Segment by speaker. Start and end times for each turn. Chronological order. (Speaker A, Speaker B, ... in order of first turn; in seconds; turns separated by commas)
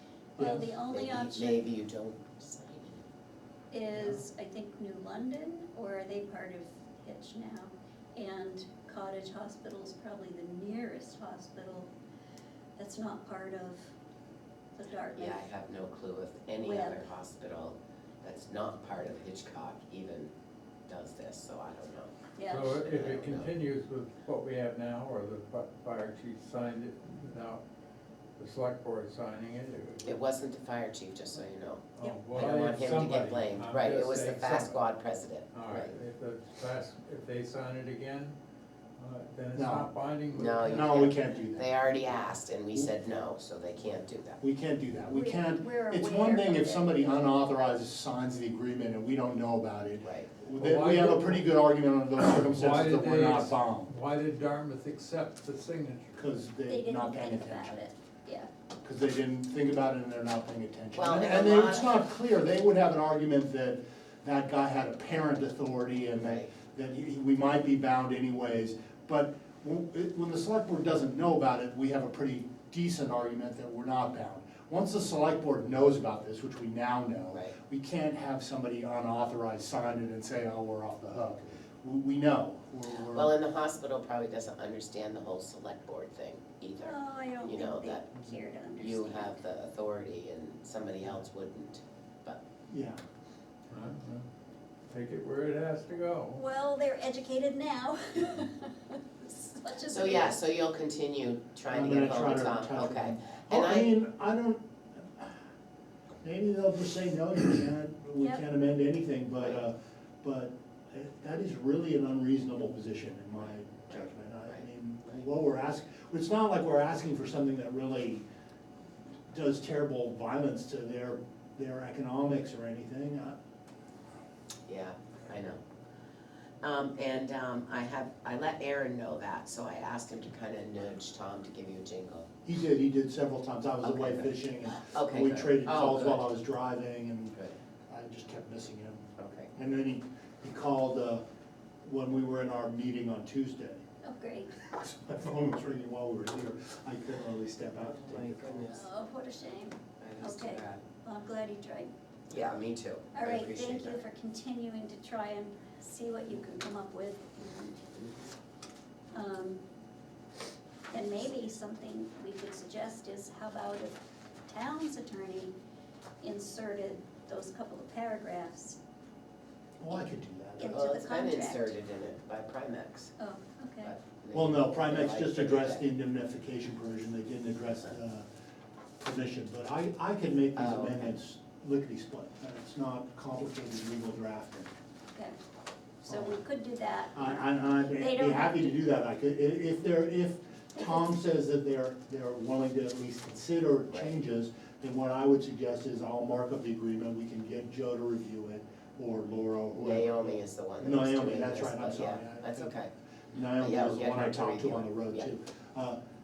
Speaker A: 0.4-1.7, Speaker B: 0.4-0.8, Speaker C: 0.9-3.0, Speaker A: 3.7-11.9, Speaker A: 12.8-13.8, Speaker A: 14.8-15.5, Speaker C: 15.2-20.3, Speaker A: 16.6-17.1, Speaker C: 20.9-22.1, Speaker A: 22.4-22.8, Speaker B: 22.5-27.6, Speaker C: 22.8-23.5, Speaker B: 28.4-30.2, Speaker C: 30.0-36.0, Speaker B: 32.0-34.8, Speaker B: 35.5-38.4, Speaker B: 39.0-41.1, Speaker D: 39.5-39.9, Speaker C: 40.3-44.4, Speaker D: 40.6-42.1, Speaker D: 44.4-53.9, Speaker A: 45.1-47.1, Speaker C: 50.0-50.3, Speaker B: 50.6-51.5, Speaker B: 52.4-56.2, Speaker D: 56.1-57.8, Speaker A: 56.7-58.5, Speaker D: 58.8-83.4, Speaker C: 60.9-62.0, Speaker C: 66.2-66.5, Speaker C: 77.3-77.6, Speaker C: 83.1-88.2, Speaker A: 86.8-89.4, Speaker C: 88.8-92.4, Speaker D: 92.7-93.0, Speaker B: 93.7-94.3, Speaker B: 94.9-96.4, Speaker A: 96.3-100.4, Speaker C: 99.9-103.9, Speaker D: 101.7-105.4, Speaker D: 106.2-118.2, Speaker D: 119.3-123.4, Speaker C: 124.7-125.6, Speaker C: 126.6-132.3, Speaker D: 132.4-137.4, Speaker C: 133.8-136.3, Speaker D: 137.9-141.2, Speaker C: 139.2-139.5, Speaker D: 141.8-143.8, Speaker A: 144.0-144.5, Speaker D: 144.6-148.8, Speaker C: 147.9-148.9, Speaker A: 148.7-151.9, Speaker C: 150.0-150.8, Speaker C: 152.3-154.0, Speaker A: 153.1-158.0, Speaker A: 159.1-159.6, Speaker A: 160.9-165.5, Speaker A: 166.2-168.8, Speaker D: 169.8-170.8, Speaker A: 170.6-171.8, Speaker C: 170.7-173.2, Speaker A: 173.2-173.9, Speaker C: 173.8-175.8, Speaker D: 174.3-178.3, Speaker D: 179.0-184.7, Speaker C: 180.6-181.2, Speaker A: 185.1-185.4, Speaker A: 186.0-188.8, Speaker D: 186.1-186.4, Speaker D: 187.1-206.0, Speaker C: 193.9-194.2, Speaker C: 199.8-202.9, Speaker C: 203.6-205.3